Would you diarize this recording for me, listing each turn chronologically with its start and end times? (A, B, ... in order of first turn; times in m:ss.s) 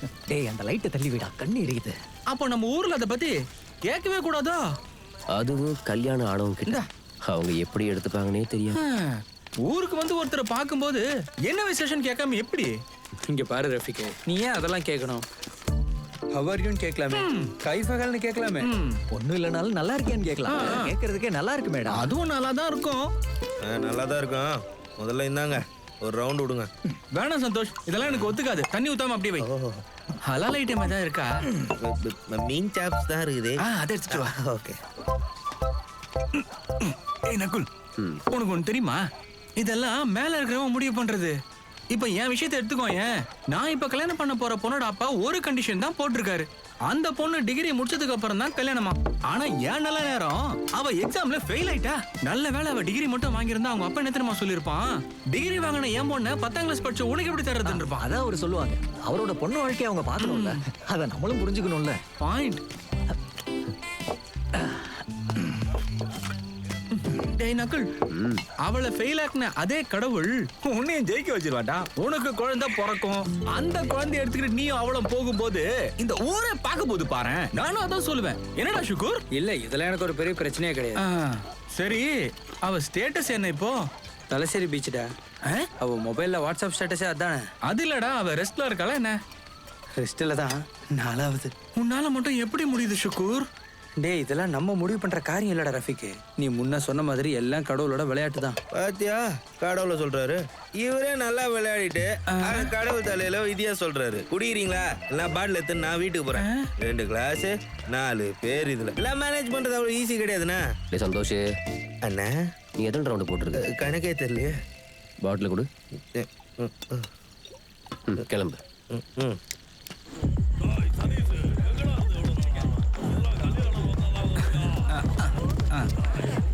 0:00.3-0:02.0 A
0:02.3-0:03.4 B
0:03.9-0:04.6 B
0:05.3-0:08.8 C
0:08.8-0:12.8 B
0:13.3-0:15.2 D
0:16.3-0:18.7 D
0:17.1-0:17.5 B
0:18.6-0:18.9 B
0:19.1-0:22.1 A
0:20.5-0:20.9 B
0:21.9-0:23.0 B
0:23.6-0:26.7 E
0:27.2-0:29.5 B
0:29.4-0:29.8 E
0:30.3-0:31.3 B
0:31.8-0:34.8 E
0:33.7-0:34.4 B
0:36.4-0:37.7 B
0:38.0-0:38.2 C
0:38.3-0:39.0 B
0:39.6-0:41.4 B
0:41.9-0:58.0 B
0:57.6-1:02.0 A
1:00.2-1:00.6 B
1:02.2-1:02.6 B
1:07.2-1:07.9 B
1:08.1-1:08.4 C
1:08.6-1:19.2 B
1:19.3-1:21.0 D
1:21.0-1:23.8 B
1:24.3-1:25.1 D
1:25.8-1:27.5 D
1:27.7-1:29.2 B
1:30.0-1:31.5 D
1:31.8-1:33.5 B
1:34.0-1:38.6 D
1:38.7-1:50.6 E
1:42.3-1:42.7 B
1:46.3-1:46.7 B
1:50.9-1:51.5 C
1:52.0-1:52.4 E
1:52.8-1:53.6 C
1:53.6-1:54.5 E
1:55.2-1:55.7 C
1:56.2-1:57.1 E
1:58.1-1:58.6 C
1:58.9-1:59.4 E
2:05.0-2:05.9 B